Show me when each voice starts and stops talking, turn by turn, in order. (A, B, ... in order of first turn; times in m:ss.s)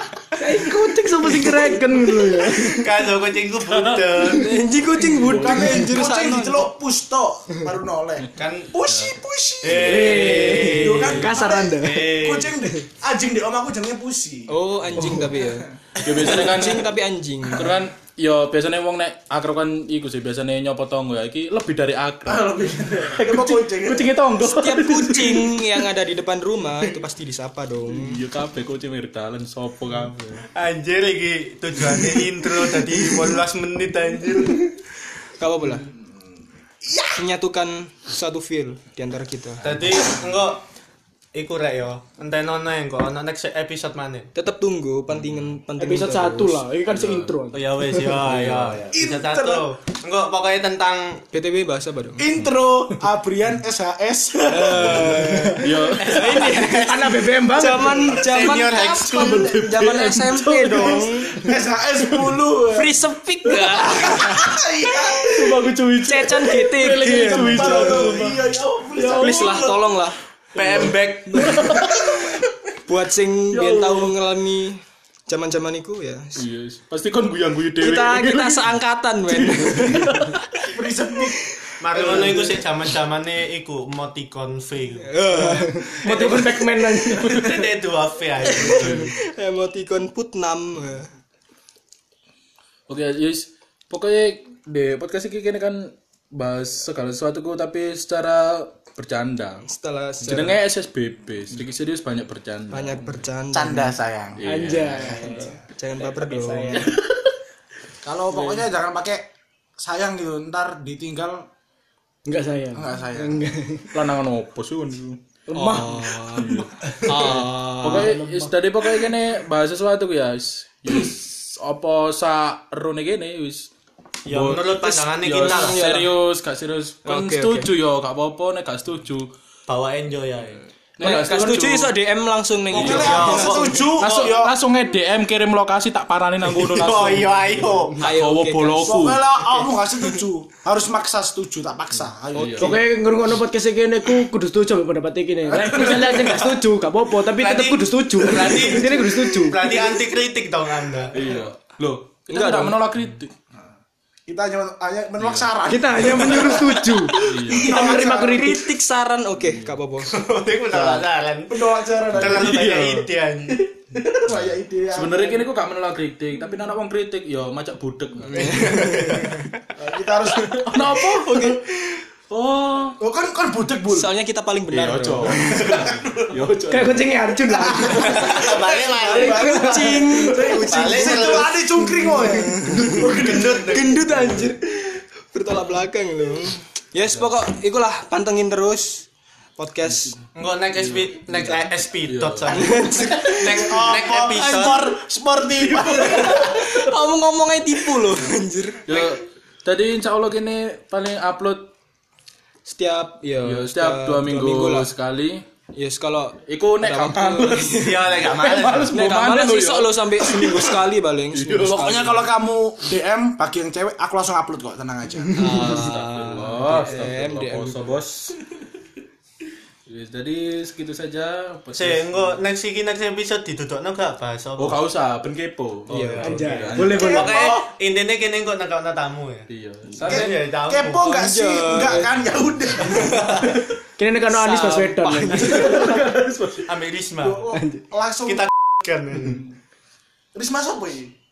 0:00.4-0:02.9 A
0:00.4-0:02.7 B
0:02.7-0:04.6 C
0:03.7-0:04.3 D
0:04.2-0:06.7 B
0:05.2-0:05.7 D
0:05.2-0:15.0 E
0:08.4-0:08.8 C
0:08.8-0:09.1 D
0:09.6-0:12.6 C
0:09.7-0:10.2 D
0:09.8-0:12.2 A
0:14.5-0:17.8 B
0:16.0-0:16.9 D
0:17.5-0:25.8 D
0:22.3-0:24.1 E
0:24.4-0:28.2 B
0:27.9-0:30.5 D
0:30.5-0:34.7 C
0:35.4-0:35.9 B
0:36.8-0:37.2 E
0:37.1-0:39.9 B
0:39.6-0:40.6 C
0:41.3-0:44.3 C
0:44.3-0:46.6 B
0:45.8-0:47.8 A
0:46.9-0:47.3 D
0:47.5-0:51.2 C
0:48.0-0:48.8 D
0:48.9-0:49.7 E
0:51.3-0:52.3 B
0:52.2-0:55.7 E
0:52.3-0:52.5 D
0:54.4-1:01.5 B
0:55.6-0:56.7 D
0:56.0-0:57.2 C
0:56.6-0:58.2 A
0:58.1-0:59.6 C
0:59.1-1:01.3 D
1:01.4-1:03.0 E
1:02.0-1:02.4 D
1:02.7-1:04.4 B
1:03.4-1:04.5 D
1:03.5-1:05.6 E
1:05.2-1:09.8 D
1:06.0-1:08.3 B
1:07.2-1:09.9 E
1:09.0-1:10.2 B
1:10.5-1:11.9 C
1:10.5-1:12.3 D
1:11.3-1:12.0 B
1:12.9-1:16.4 B
1:13.5-1:14.2 D
1:16.3-1:18.7 D
1:17.8-1:20.3 B
1:19.2-1:20.4 D
1:20.7-1:22.6 E
1:21.8-1:29.1 C
1:22.0-1:22.3 B
1:25.0-1:26.5 B
1:25.3-1:27.7 A
1:28.4-1:31.1 B
1:32.9-1:39.6 D
1:39.6-1:40.6 B
1:40.2-1:43.2 D
1:42.7-1:43.9 B
1:43.5-1:44.4 E
1:44.4-1:45.3 D
1:44.4-1:45.6 A
1:45.0-1:45.5 E
1:45.8-1:47.0 B
1:46.3-1:46.6 A
1:48.0-1:51.5 E
1:52.2-1:53.9 A
1:52.7-1:53.5 E
1:53.9-1:55.2 D
1:55.5-1:56.1 A
1:55.5-1:58.2 B
1:56.3-2:03.7 D
2:04.2-2:05.8 C
2:04.3-2:09.3 D
2:04.8-2:06.1 B
2:07.0-2:07.7 B
2:09.7-2:10.6 C
2:11.0-2:11.9 D
2:11.0-2:13.8 B
2:12.7-2:14.6 E
2:12.7-2:14.4 C
2:12.8-2:19.2 D
2:16.6-2:18.0 C
2:18.0-2:20.2 B
2:18.8-2:22.8 E
2:22.3-2:22.7 D
2:22.4-2:22.7 B
2:22.6-2:29.6 A
2:25.7-2:26.3 D
2:27.3-2:31.1 C
2:31.1-2:33.3 D
2:32.3-2:32.8 B
2:34.3-2:38.6 E
2:35.2-2:35.5 D
2:35.6-2:38.7 A
2:37.2-2:37.8 D
2:38.2-2:40.2 B
2:40.0-2:43.7 C
2:40.7-2:41.0 D
2:41.5-2:42.6 E
2:42.1-2:43.1 D
2:44.0-2:45.5 E
2:44.1-2:49.1 D
2:48.4-2:49.2 B
2:48.5-2:50.9 E
2:50.3-2:51.6 D
2:50.7-2:52.0 B
2:52.3-2:53.0 D
2:53.0-2:54.1 E
2:53.9-2:55.8 B
2:54.7-2:57.2 D
2:55.6-2:56.1 E
2:56.7-2:58.3 A
2:57.5-3:04.2 E
2:57.9-3:01.6 C
2:58.0-3:03.1 B
3:03.0-3:04.0 C
3:03.7-3:10.2 B
3:10.3-3:14.9 C
3:10.8-3:12.7 D
3:12.5-3:13.7 B
3:13.0-3:16.8 E
3:14.3-3:15.0 B
3:15.7-3:16.4 D
3:15.8-3:19.0 B
3:18.8-3:21.7 D
3:22.6-3:24.9 B
3:23.4-3:25.4 D
3:25.7-3:28.1 B
3:26.5-3:32.2 D
3:27.7-3:28.9 C
3:28.9-3:32.0 B
3:31.6-3:35.6 E
3:35.3-3:37.8 B
3:35.4-3:38.4 D
3:39.9-3:42.4 D
3:41.7-3:44.8 C
3:44.6-3:47.2 D
3:45.9-3:47.0 B
3:46.2-3:47.5 A
3:46.8-3:47.7 E
3:47.0-3:49.5 C
3:49.5-3:50.3 D
3:50.0-3:51.1 C
3:50.0-3:53.4 E
3:51.0-3:52.3 B
3:53.1-3:53.6 C
3:54.0-3:55.8 A
3:54.3-3:56.0 B
3:55.4-3:56.7 D
3:56.6-3:57.5 C
3:57.2-3:58.5 E
3:58.2-3:59.4 C
4:00.3-4:01.1 E